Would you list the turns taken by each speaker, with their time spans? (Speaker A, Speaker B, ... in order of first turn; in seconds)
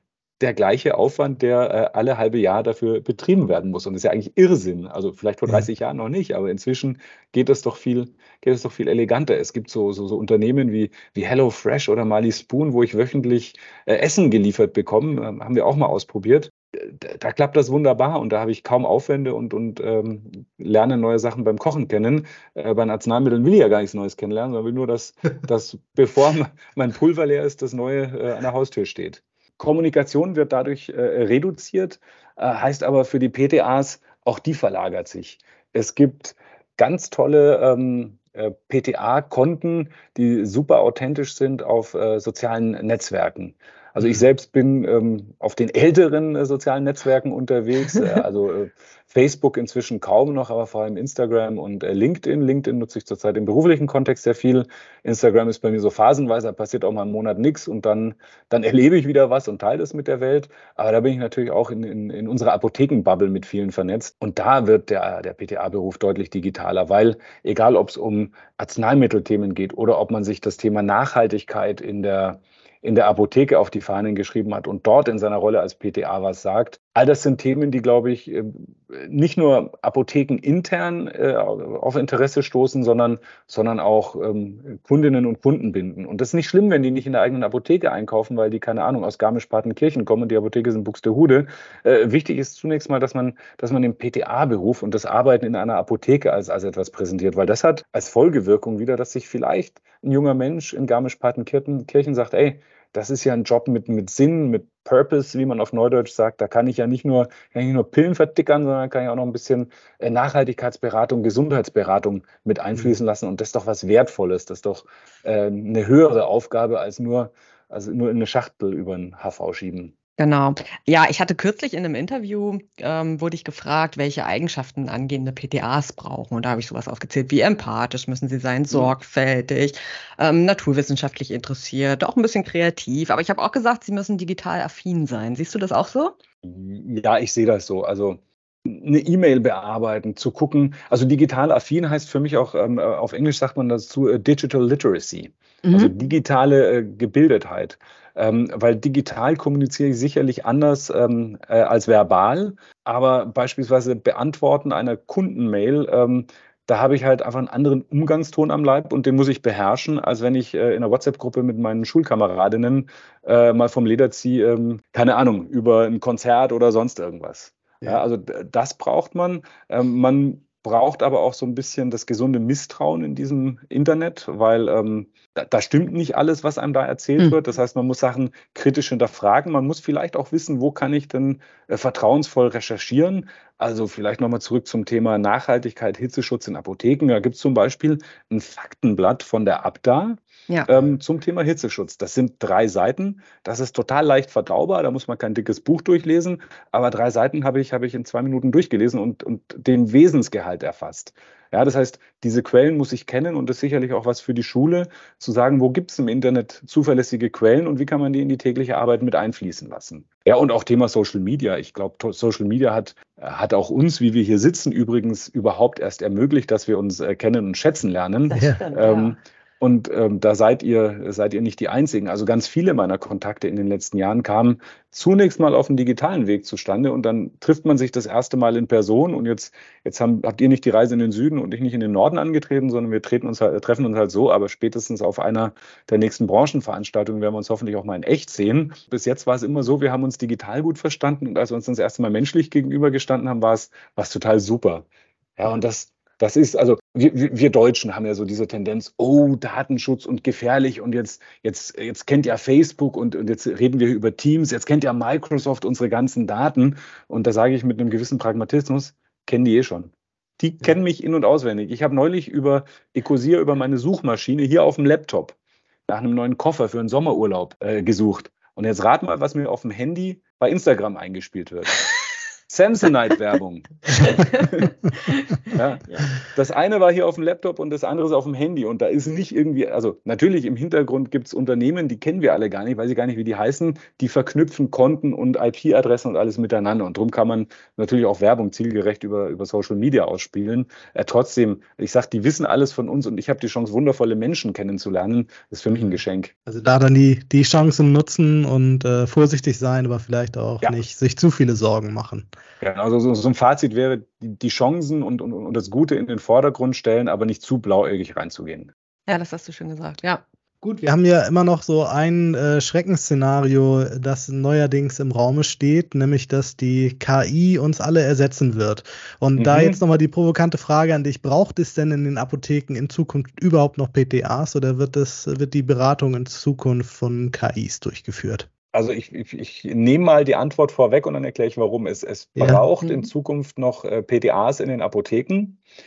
Speaker A: 0.4-120.0, 136.4-265.4, 265.9-271.7, 272.5-274.7, 275.5-296.3, 302.6-308.7, 319.3-319.8, 328.7-335.6
Speaker B: 47.8-48.2, 120.2-136.1, 145.6-145.9, 218.3-219.2, 273.9-274.4, 275.0-276.1, 309.1-310.2, 332.8-333.1
Speaker C: 295.7-302.3, 310.6-328.5, 332.4-332.6